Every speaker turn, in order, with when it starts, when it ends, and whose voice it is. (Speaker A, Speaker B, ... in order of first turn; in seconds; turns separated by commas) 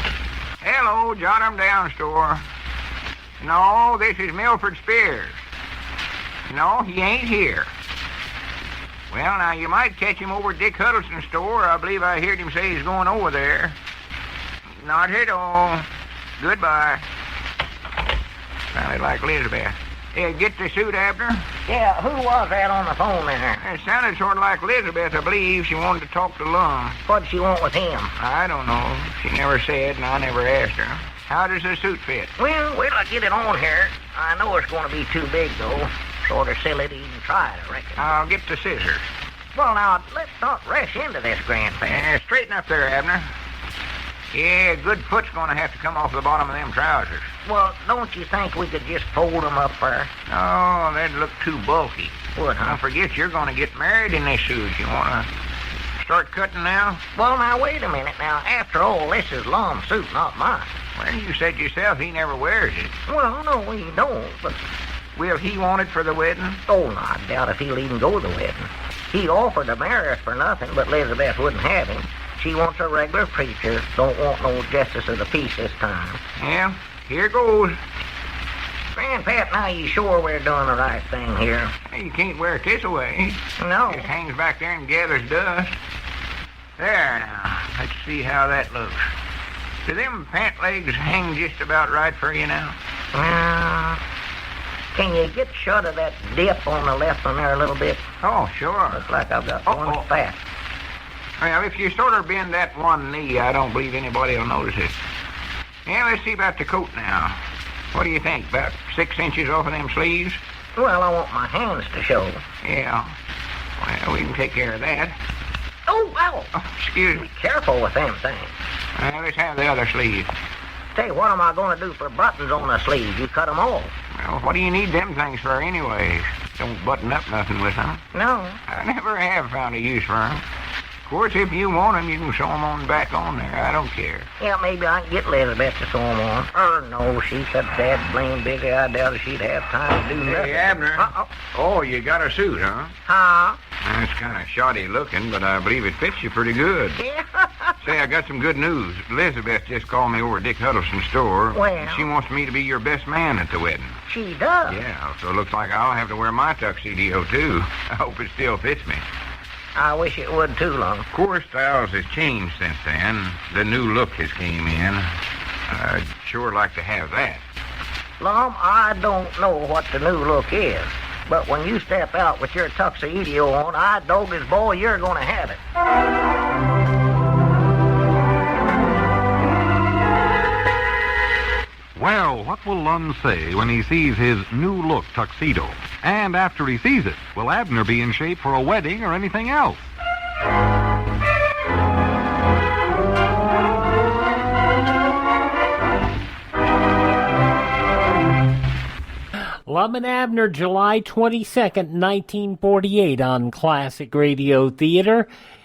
Speaker A: 0.6-2.4, Speaker A: 3.4-5.4, Speaker A: 6.5-7.7, Speaker A: 9.1-13.8, Speaker A: 14.8-15.8, Speaker A: 16.4-17.0, Speaker A: 18.7-21.5, Speaker B: 21.7-23.6, Speaker A: 23.6-27.0, Speaker B: 27.1-28.1, Speaker A: 28.2-32.3, Speaker B: 32.4-38.0, Speaker A: 38.0-39.1, Speaker B: 39.5-42.1, Speaker A: 41.8-43.3, Speaker A: 44.3-47.3, Speaker B: 47.4-50.1, Speaker A: 50.3-55.3, Speaker B: 52.4-52.8, Speaker A: 56.0-57.0, Speaker B: 57.1-60.7, Speaker A: 60.9-62.9, Speaker B: 63.1-64.7, Speaker A: 65.2-66.6, Speaker B: 66.7-76.2, Speaker A: 76.4-77.8, Speaker B: 78.9-81.8, Speaker A: 81.9-85.8, Speaker B: 83.6-84.1, Speaker A: 86.8-89.1, Speaker A: 89.8-92.8, Speaker B: 93.1-94.0, Speaker B: 94.9-98.0, Speaker A: 98.2-99.0, Speaker B: 98.9-100.4, Speaker A: 99.7-100.0, Speaker A: 101.4-105.0, Speaker A: 105.8-107.4, Speaker A: 107.9-110.4, Speaker B: 110.8-112.4, Speaker A: 112.6-113.1, Speaker A: 113.8-115.2, Speaker B: 115.9-116.5, Speaker A: 116.5-117.3, Speaker B: 117.1-118.5, Speaker A: 119.0-120.3, Speaker B: 120.9-123.9, Speaker A: 124.1-128.1, Speaker B: 128.1-128.6, Speaker A: 128.7-130.4, Speaker A: 131.0-134.3, Speaker B: 134.4-141.3, Speaker A: 140.2-142.9, Speaker B: 143.1-143.6, Speaker A: 143.8-147.0, Speaker B: 147.0-147.8, Speaker A: 147.8-154.0, Speaker B: 151.5-152.1, Speaker B: 154.1-154.8, Speaker A: 154.7-159.0, Speaker B: 159.8-161.1, Speaker A: 161.1-165.1, Speaker A: 165.7-167.4, Speaker B: 168.2-175.6, Speaker C: 181.9-189.8, Speaker D: 199.7-205.3